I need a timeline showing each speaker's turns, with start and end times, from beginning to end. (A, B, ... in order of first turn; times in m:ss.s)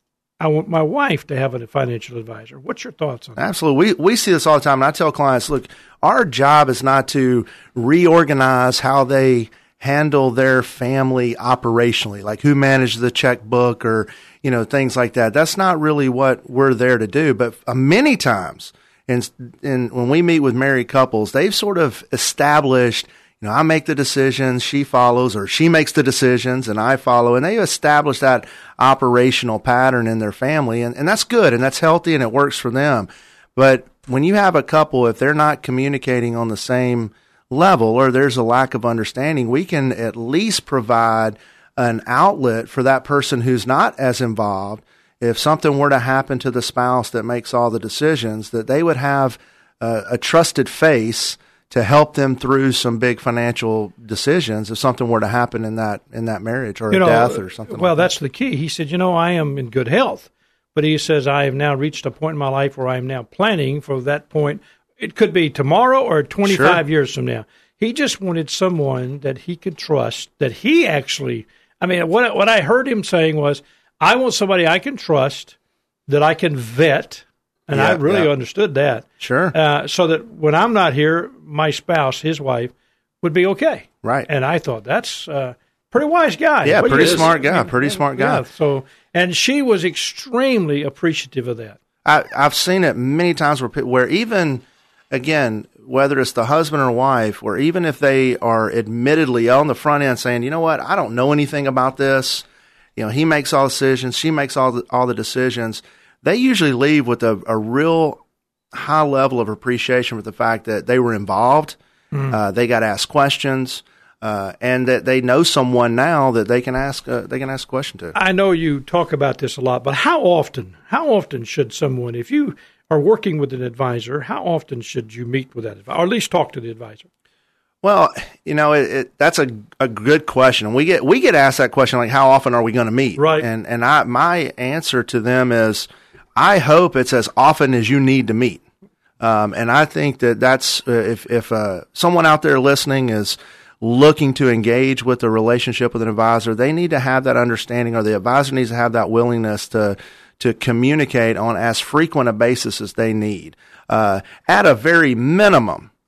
0:00.4-0:03.4 A
0:03.4-0:58.1 B
0:56.9-1:15.6 A
1:06.4-1:06.8 B
1:16.1-1:31.8 A
1:17.7-1:18.3 B
1:19.2-1:19.6 B
1:26.6-1:28.4 B
1:32.0-1:42.4 B
1:43.0-1:48.2 B
1:48.7-1:51.8 B
1:52.1-1:52.4 A
1:52.3-1:58.1 B
1:58.1-2:07.0 A
2:07.8-2:18.6 B
2:13.2-2:13.5 A
2:19.2-2:35.9 B